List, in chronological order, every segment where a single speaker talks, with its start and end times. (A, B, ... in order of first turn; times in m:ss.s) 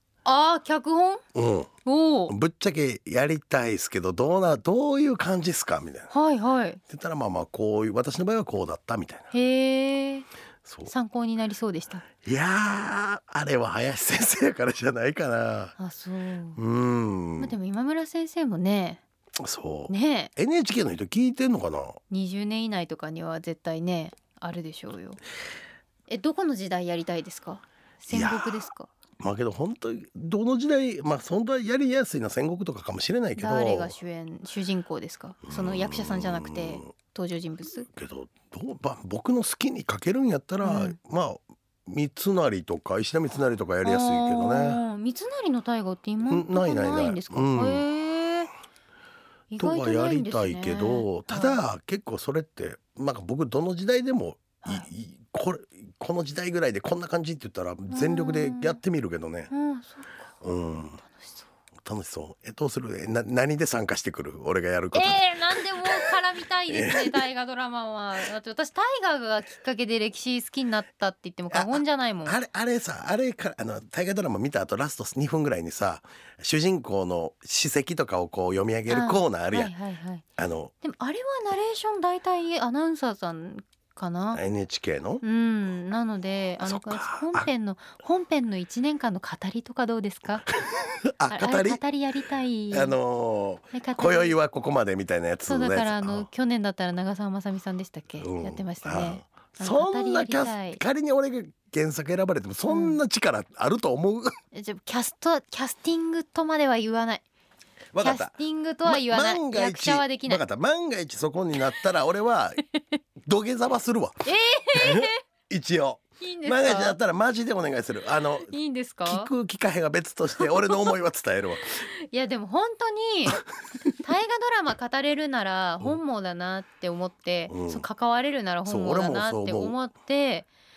0:00.2-0:01.2 A
0:01.4-0:01.7 B
0:01.9-0:02.3 A
0:02.3-0:06.1 B
0:06.1-0:06.8 A
0:06.9-0:09.3 B
0:09.3-0:10.3 A
0:10.6-0:10.9 B
0:10.9-0:12.0 A
0:12.2-0:15.7 B
0:15.8-0:16.6 A
0:16.6-0:17.5 B
0:17.4-0:19.0 A
0:19.4-0:22.0 B
0:19.9-0:20.3 A
0:22.1-0:25.2 A
0:26.1-0:28.9 A
0:28.1-0:33.9 B
0:33.4-0:37.9 A
0:35.5-0:36.9 B
0:37.9-0:44.8 B
0:40.6-0:41.0 A
0:43.8-0:48.5 A
0:46.3-0:47.8 B
0:49.5-0:51.6 A
0:49.6-0:59.5 B
0:57.9-0:58.8 A
0:59.5-1:00.3 A
1:00.4-1:01.0 B
1:01.2-1:01.5 A
1:01.8-1:06.1 B
1:04.9-1:12.4 A
1:06.7-1:07.2 B
1:11.5-1:19.7 B
1:18.9-1:20.2 A
1:20.4-1:20.7 B
1:20.8-1:24.4 A
1:24.3-1:25.2 B
1:25.2-1:30.5 A
1:26.6-1:27.5 B
1:31.0-1:31.8 B
1:31.3-1:33.0 A
1:32.7-1:36.3 B
1:33.7-1:34.3 A
1:35.5-1:40.8 A
1:38.2-1:44.4 B
1:42.7-1:43.0 A
1:44.5-1:47.2 A
1:47.9-1:52.6 B
1:48.0-1:50.4 A
1:53.2-1:58.5 B
1:54.2-1:55.2 A
1:56.2-1:57.0 A
1:58.5-1:59.3 A
1:59.0-2:01.8 B
2:02.1-2:03.4 A
2:04.0-2:10.5 A
2:07.5-2:07.8 B
2:08.7-2:09.8 B